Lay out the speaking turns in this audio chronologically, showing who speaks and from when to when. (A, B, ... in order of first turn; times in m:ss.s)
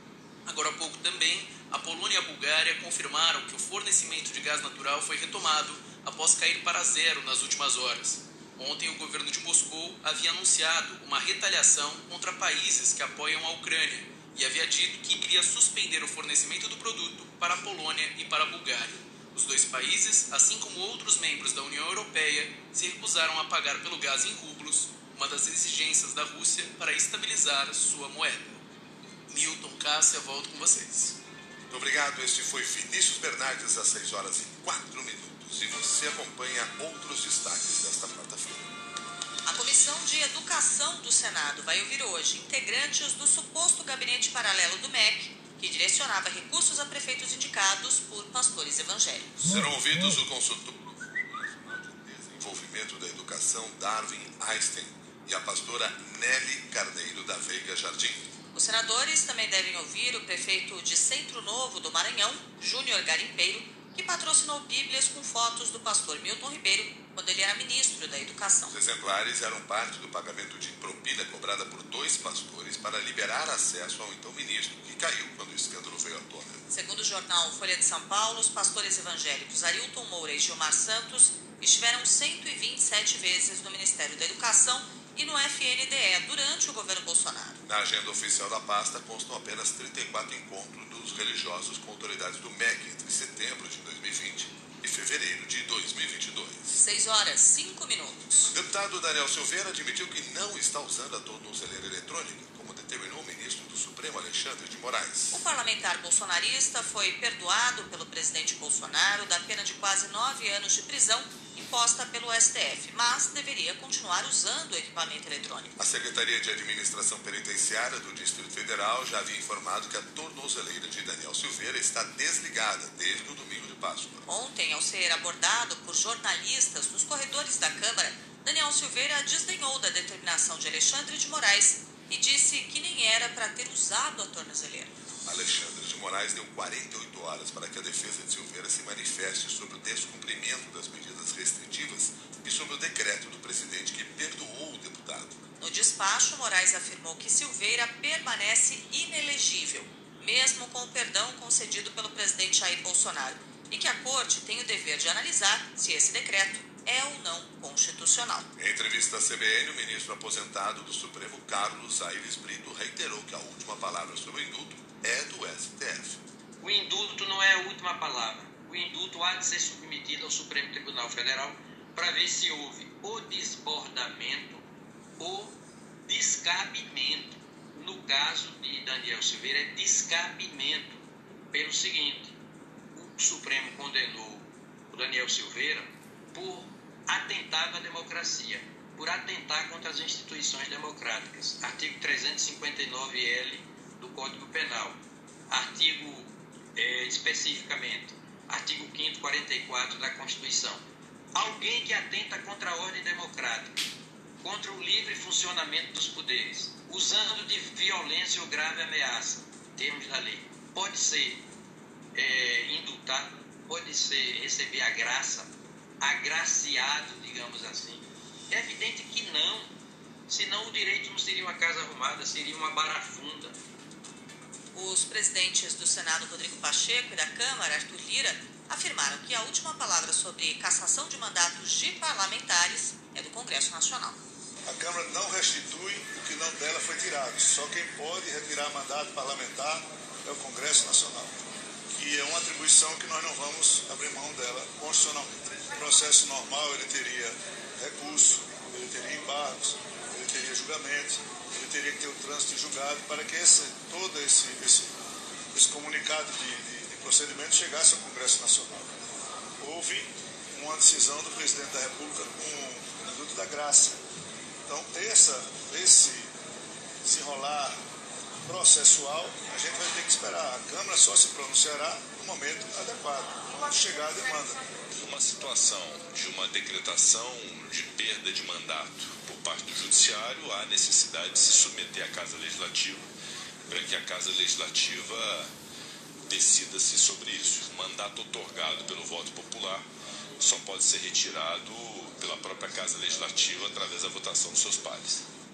0:00.4-0:28.6 A
0:29.3-0:31.1 A
0:31.7-0:38.7 B
0:39.4-0:49.4 C
0:49.4-0:58.2 B
0:58.5-1:08.8 C
1:08.7-1:16.6 B
1:16.7-1:27.6 C
1:27.6-1:36.7 B
1:36.7-1:38.5 C
1:38.5-1:45.4 B
1:45.3-1:55.8 C
1:55.8-2:04.2 B
2:04.3-2:14.9 C
2:15.2-2:25.4 B
2:25.6-2:38.5 C
2:38.6-2:46.2 B
2:46.6-2:54.6 D
2:55.2-3:02.4 D
3:02.9-3:20.8 D
3:21.3-3:23.8 D
3:24.4-3:31.5 D
3:32.1-3:39.8 D
3:40.3-3:43.6 D
3:44.7-3:54.2 C
3:54.7-4:01.3 E
4:01.9-4:14.9 E
4:15.5-4:18.9 E
4:19.6-4:24.0 E
4:24.7-4:26.3 E
4:27.0-4:27.8 E
4:28.4-4:34.6 E
4:35.0-4:43.1 F
4:43.7-4:45.5 F
4:46.3-4:49.8 F
4:50.4-4:55.2 F